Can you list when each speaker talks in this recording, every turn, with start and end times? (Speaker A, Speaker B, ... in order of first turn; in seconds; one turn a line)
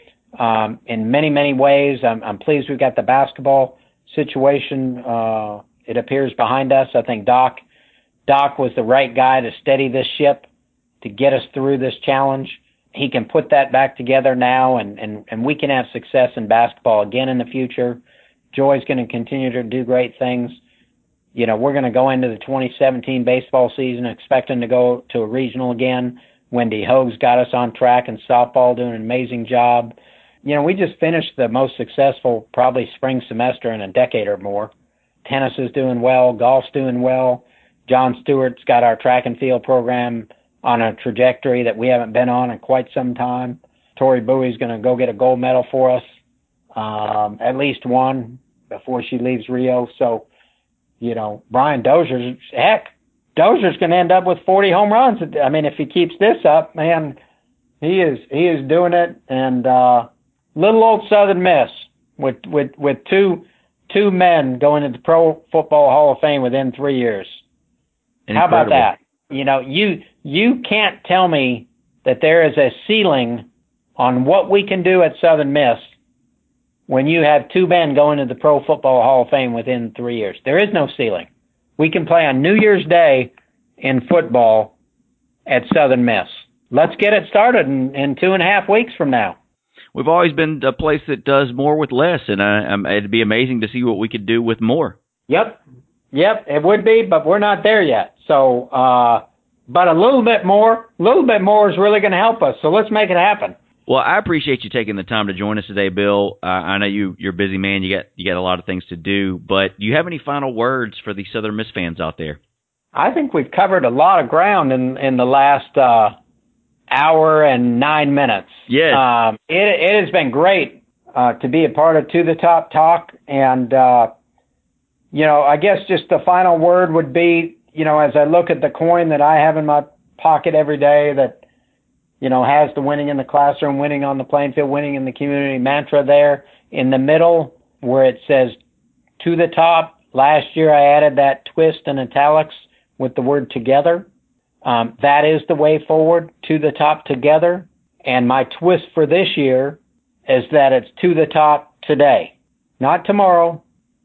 Speaker A: 0.4-7.6
Speaker A: 8.3-10.5
Speaker A: 11.0-20.6
Speaker A: 21.4-34.7
Speaker A: 35.2-46.0
Speaker A: 46.8-50.3
Speaker A: 51.0-57.2
Speaker A: 57.8-67.4
Speaker B: 68.3-68.9
Speaker A: 68.3-73.5
Speaker A: 74.0-75.9
Speaker A: 76.9-84.7
Speaker A: 85.5-89.4
Speaker B: 90.0-95.0
Speaker A: 95.3-95.6
Speaker A: 96.1-103.6
Speaker B: 103.9-112.4
Speaker A: 113.0-116.2
Speaker A: 116.9-124.1
Speaker B: 118.7-119.0
Speaker A: 125.1-131.4
Speaker A: 132.2-138.6
Speaker A: 139.2-144.1
Speaker A: 144.6-153.6